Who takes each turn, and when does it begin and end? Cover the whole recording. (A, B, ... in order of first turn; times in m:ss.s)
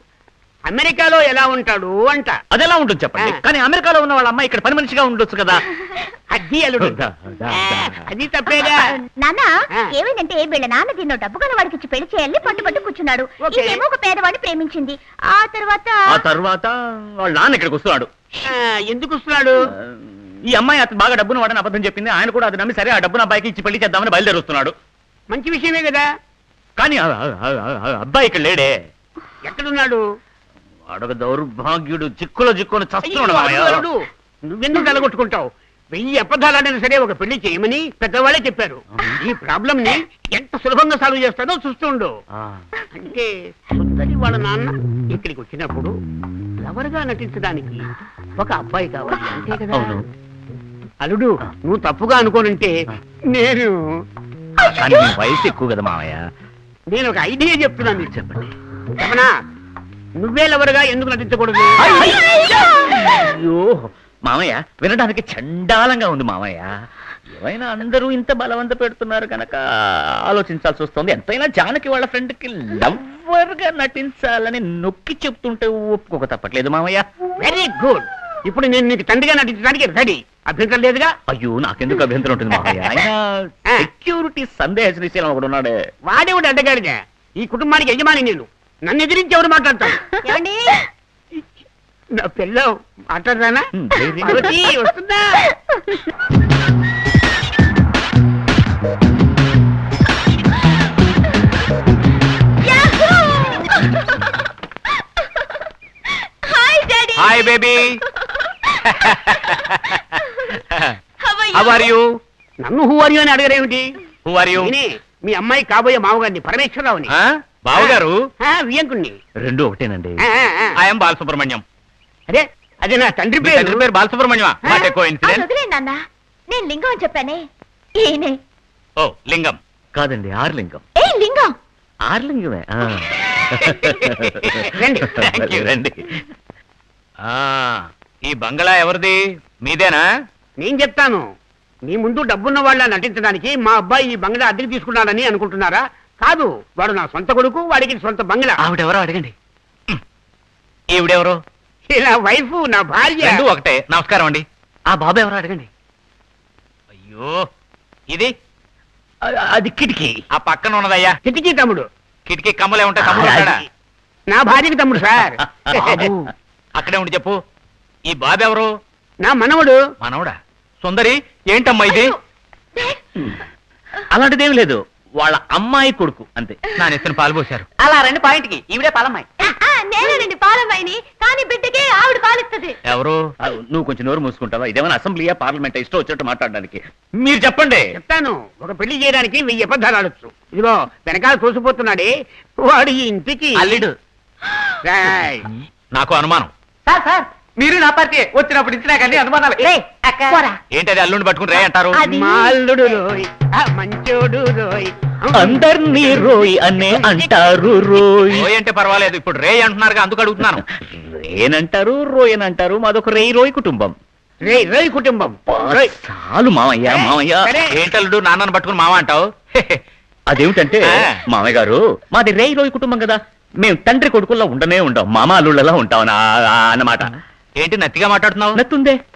0:00.7-0:02.3 A
0:02.5-0:05.6 B
0:06.3-0:07.0 A
0:06.8-0:08.0 B
0:07.5-0:08.9 A
0:08.7-0:16.2 C
0:13.4-0:13.8 A
0:16.1-0:18.4 B
0:18.5-0:19.6 A
0:19.8-0:24.7 B
0:25.3-0:26.0 A
0:26.8-0:28.7 B
0:29.5-0:30.0 A
0:30.9-0:33.8 B
0:33.0-0:42.1 A
0:42.4-0:42.6 B
0:42.9-0:45.9 A
0:46.6-0:47.8 A
0:48.4-0:49.9 A
0:49.7-0:50.0 B
0:51.0-0:52.7 A
0:53.3-0:53.8 A
0:54.6-0:56.2 B
0:56.9-0:58.1 A
0:57.9-0:58.5 B
0:59.0-0:59.3 A
1:00.2-1:01.9 A
1:01.8-1:06.7 B
1:07.3-1:17.0 B
1:17.4-1:21.1 A
1:21.3-1:25.7 B
1:26.1-1:30.0 A
1:30.2-1:30.8 C
1:32.2-1:33.6 A
1:33.7-1:34.5 B
1:34.2-1:35.5 A
1:42.6-1:43.8 C
1:46.4-1:47.4 C
1:47.2-1:48.0 D
1:48.8-1:51.0 D
1:51.3-1:51.8 C
1:51.5-1:52.0 D
1:52.6-1:53.8 A
1:54.2-1:54.7 D
1:54.6-1:57.1 A
1:57.1-1:58.2 D
1:57.7-1:59.2 A
1:59.4-2:00.2 B
2:00.3-2:00.7 A
2:00.8-2:01.6 D
2:02.3-2:03.8 A
2:03.4-2:05.5 D
2:04.7-2:07.5 C
2:08.0-2:08.4 C
2:09.0-2:09.6 D
2:10.0-2:10.8 B
2:11.0-2:11.5 C
2:12.1-2:16.3 B
2:13.6-2:14.7 D
2:14.7-2:15.1 A
2:15.2-2:15.6 D
2:17.2-2:20.0 D
2:20.6-2:21.2 A
2:21.9-2:28.6 A
2:28.6-2:29.3 B
2:30.9-2:31.4 D
2:31.9-2:33.4 A
2:33.2-2:34.4 D
2:34.9-2:35.7 B
2:37.0-2:37.4 D
2:39.2-2:40.2 B
2:40.4-2:41.2 D
2:41.2-2:41.8 A
2:42.3-2:43.6 D
2:43.0-2:43.5 B
2:44.3-2:46.1 A
2:45.4-2:46.3 B
2:46.8-2:47.4 D
2:48.1-2:48.7 D
2:49.2-2:49.8 A
2:50.0-2:52.2 D
2:54.0-2:56.6 B
2:56.8-2:57.7 D
2:57.8-2:59.3 E
2:59.6-3:01.7 C
3:02.8-3:03.2 D
3:03.4-3:07.9 B
3:08.0-3:12.1 A
3:12.6-3:13.7 A
3:14.8-3:15.5 A
3:15.9-3:16.5 D
3:16.9-3:20.5 E
3:20.7-3:22.0 D
3:22.0-3:26.3 A
3:25.3-3:28.5 B
3:28.3-3:30.6 D
3:30.4-3:33.9 B
3:34.4-3:35.9 A
3:35.5-3:37.4 B
3:36.9-3:37.7 A
3:37.7-3:39.8 D
3:40.3-3:47.1 B
3:47.6-3:48.6 D
3:48.5-3:49.0 B